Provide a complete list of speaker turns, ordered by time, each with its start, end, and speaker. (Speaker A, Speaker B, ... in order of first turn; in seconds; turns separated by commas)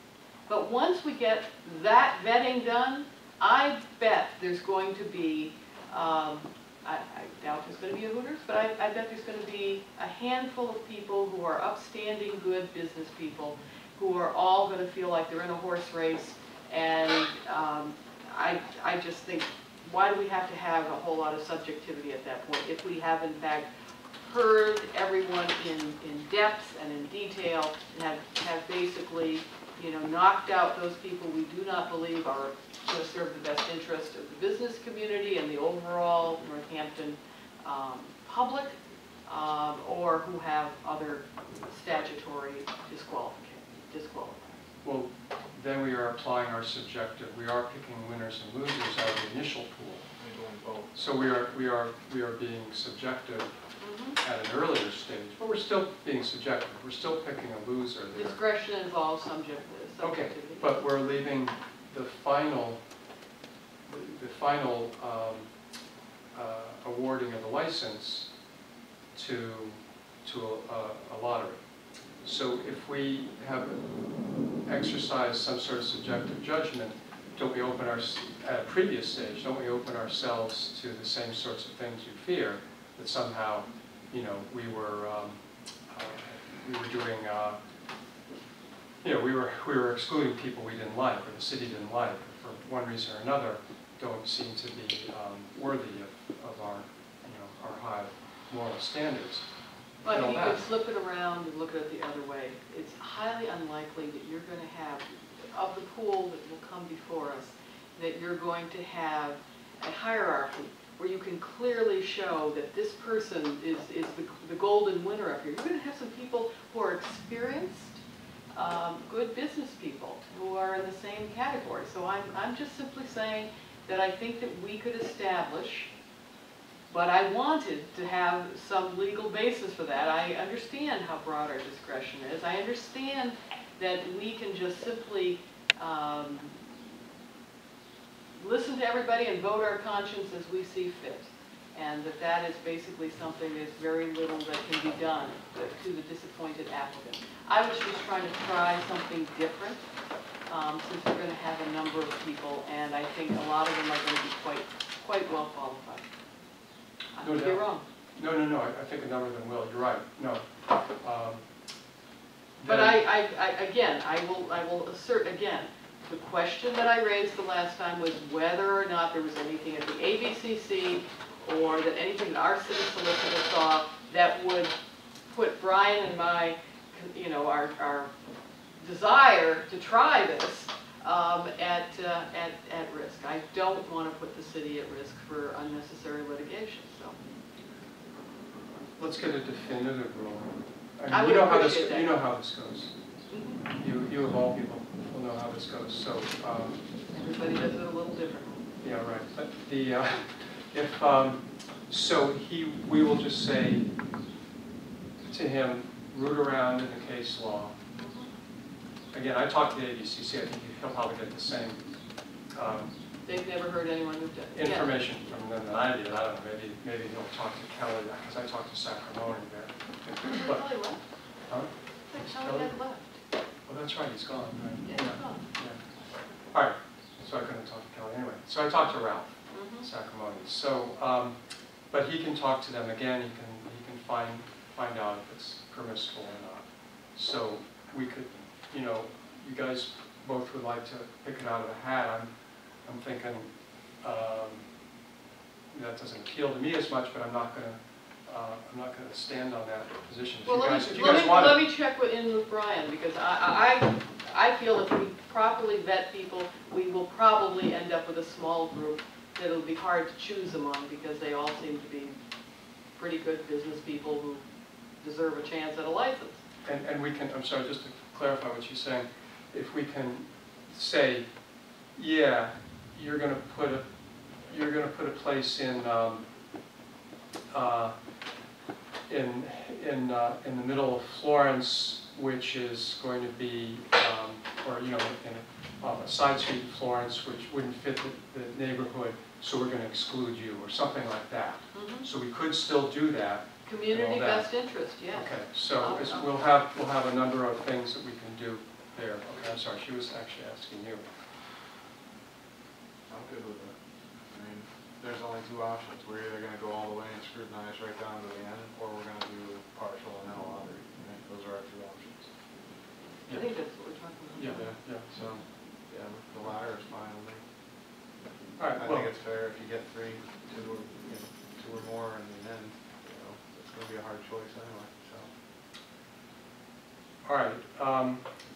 Speaker A: 0.5-44.6, Speaker B: 44.8-50.1, Speaker C: 50.2-51.0, Speaker B: 50.9-53.5, Speaker A: 53.8-54.2, Speaker B: 54.2-58.4, Speaker A: 58.1-60.7, Speaker B: 60.0-62.8, Speaker B: 63.9-65.5, Speaker B: 66.3-68.3, Speaker B: 69.2-71.6, Speaker B: 72.2-73.9, Speaker B: 74.6-87.6, Speaker B: 89.0-99.5, Speaker A: 100.0-118.0, Speaker B: 100.1-100.7, Speaker A: 118.5-125.9, Speaker A: 126.9-136.6, Speaker A: 138.3-149.8, Speaker A: 150.5-156.1, Speaker A: 157.2-157.8, Speaker B: 157.2-157.6, Speaker B: 158.2-160.5, Speaker B: 161.0-161.4, Speaker B: 162.6-163.0, Speaker A: 162.7-174.7, Speaker A: 175.3-178.1, Speaker A: 178.8-187.2, Speaker B: 189.0-193.0, Speaker A: 191.1-192.2, Speaker A: 193.3-193.6, Speaker B: 193.7-196.8, Speaker A: 197.1-198.7, Speaker B: 198.8-203.9, Speaker B: 205.3-207.8, Speaker A: 208.0-208.3, Speaker B: 209.1-211.9, Speaker B: 212.5-212.9, Speaker A: 213.2-214.9, Speaker B: 214.5-220.7, Speaker A: 220.3-221.0, Speaker B: 221.5-222.7, Speaker A: 222.1-223.2, Speaker B: 223.7-225.8, Speaker A: 224.9-225.4, Speaker B: 226.5-244.7, Speaker A: 229.5-229.9, Speaker B: 245.7-251.7, Speaker A: 250.4-262.2, Speaker A: 262.9-264.4, Speaker A: 265.0-266.4, Speaker B: 266.6-271.3, Speaker B: 271.9-273.9, Speaker B: 274.5-276.2, Speaker B: 277.5-277.9, Speaker B: 279.1-294.5, Speaker A: 291.7-292.1, Speaker A: 293.6-296.3, Speaker B: 295.1-301.1, Speaker C: 299.2-299.5, Speaker C: 303.1-312.4, Speaker A: 313.2-314.8, Speaker B: 313.3-313.6, Speaker B: 314.3-315.1, Speaker C: 314.5-317.4, Speaker B: 318.6-319.1, Speaker C: 318.8-325.3, Speaker B: 327.2-328.4